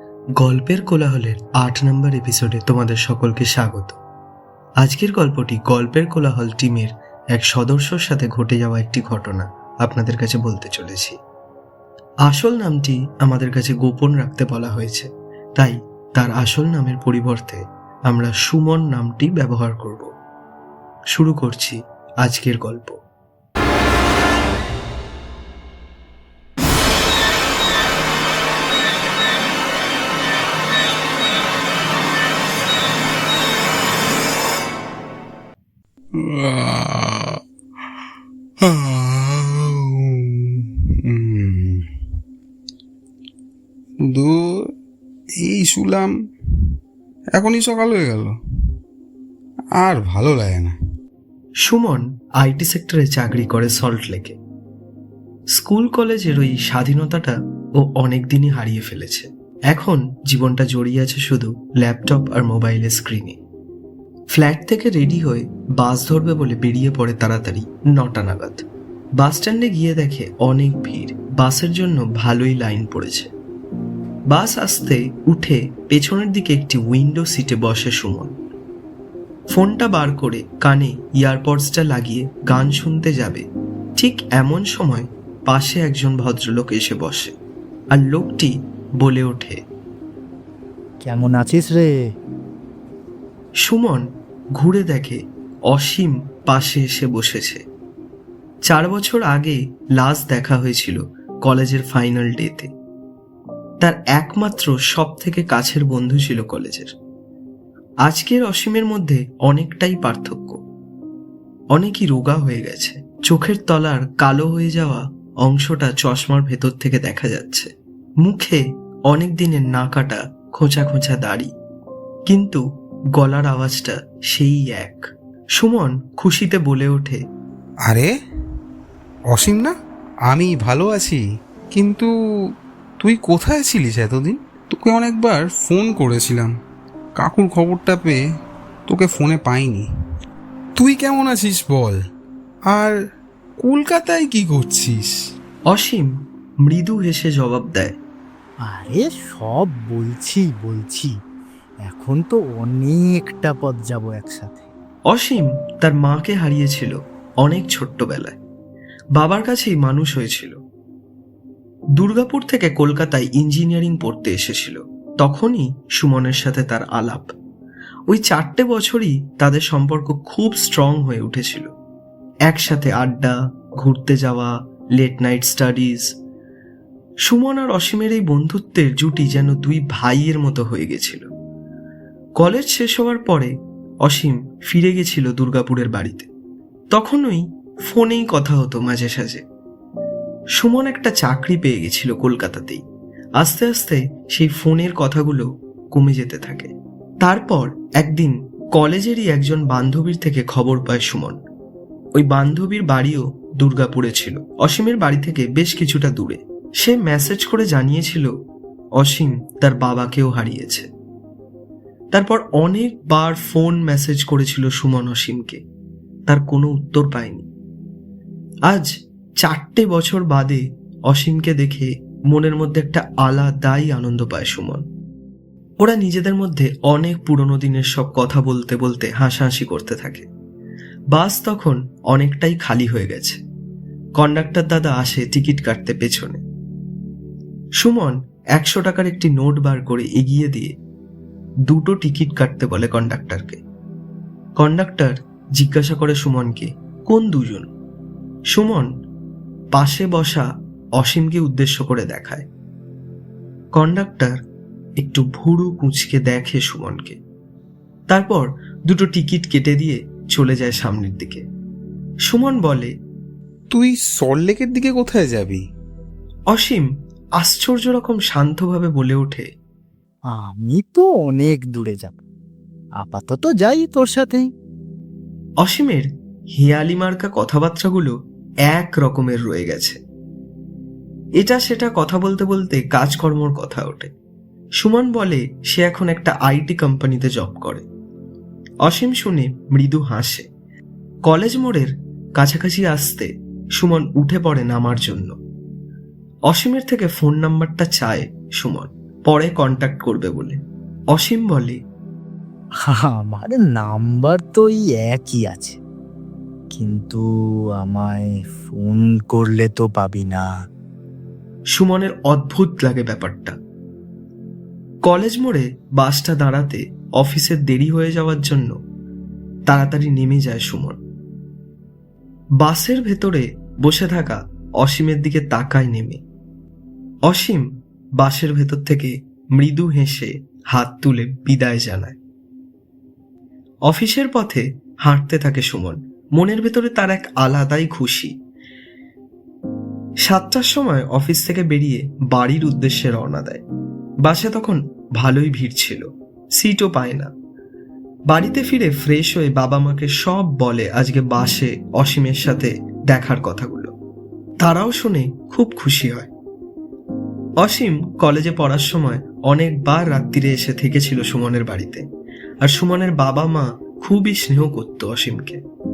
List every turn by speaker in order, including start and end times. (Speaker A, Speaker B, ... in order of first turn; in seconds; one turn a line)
Speaker A: 0.4-4.0
Speaker A: 4.8-11.2
Speaker A: 12.3-20.1
Speaker A: 21.1-23.0
Speaker B: 36.1-37.4
Speaker B: 38.6-41.8
Speaker B: 44.0-44.7
Speaker B: 45.4-46.1
Speaker B: 47.3-48.4
Speaker B: 49.8-50.8
Speaker A: 51.6-54.4
Speaker A: 55.5-63.4
Speaker A: 64.3-68.7
Speaker A: 69.2-73.3
Speaker A: 74.3-78.3
Speaker A: 79.5-83.5
Speaker A: 84.0-87.3
Speaker A: 87.9-89.6
Speaker C: 91.0-91.9
Speaker A: 93.6-94.0
Speaker A: 94.6-97.6
Speaker A: 98.7-102.7
Speaker A: 103.8-106.9
Speaker A: 108.0-110.6
Speaker A: 111.7-117.7
Speaker A: 118.2-121.5
Speaker A: 122.3-122.6
Speaker A: 123.2-125.1
Speaker A: 125.6-127.2
Speaker B: 127.8-128.1
Speaker B: 129.3-129.7
Speaker B: 130.3-132.1
Speaker B: 133.0-136.5
Speaker B: 137.2-138.2
Speaker B: 138.9-139.9
Speaker B: 140.8-142.0
Speaker B: 142.7-143.0
Speaker B: 143.6-145.2
Speaker A: 145.7-146.1
Speaker A: 146.7-148.0
Speaker C: 148.7-151.1
Speaker C: 151.8-154.7
Speaker A: 155.1-158.4
Speaker A: 159.2-160.6
Speaker A: 162.0-167.3
Speaker A: 168.1-171.7
Speaker A: 172.5-176.1
Speaker A: 177.3-181.3
Speaker A: 182.4-186.3
Speaker A: 186.9-189.4
Speaker A: 190.6-192.8
Speaker A: 193.4-201.4
Speaker A: 202.2-208.3
Speaker A: 209.0-210.9
Speaker A: 212.1-215.6
Speaker A: 216.3-217.5
Speaker A: 219.4-224.8
Speaker A: 225.8-230.3
Speaker A: 231.1-233.4
Speaker A: 234.2-236.4
Speaker A: 237.8-240.7
Speaker A: 241.7-243.6
Speaker A: 244.6-247.7
Speaker A: 248.5-248.9
Speaker A: 249.7-250.5
Speaker A: 251.0-252.5
Speaker A: 253.8-254.4
Speaker A: 255.0-257.2
Speaker A: 258.1-261.4
Speaker A: 262.3-262.9
Speaker B: 263.7-265.6
Speaker A: 266.5-269.5
Speaker C: 270.3-272.2
Speaker C: 273.0-274.5
Speaker A: 275.6-278.1
Speaker A: 278.7-280.0
Speaker A: 281.4-284.1
Speaker A: 284.8-287.9
Speaker A: 288.9-290.5
Speaker A: 291.2-295.4
Speaker A: 296.5-300.6
Speaker A: 301.1-301.8
Speaker C: 302.9-305.8
Speaker C: 306.7-307.2
Speaker C: 307.8-310.5
Speaker A: 311.8-313.6
Speaker A: 315.1-318.7
Speaker A: 319.7-321.0
Speaker A: 322.6-326.2
Speaker A: 327.3-327.7
Speaker A: 328.2-332.2
Speaker A: 333.9-338.3
Speaker A: 340.2-343.6
Speaker A: 344.2-347.3
Speaker A: 348.3-353.9
Speaker A: 354.6-356.3
Speaker A: 357.6-362.0
Speaker A: 362.6-365.6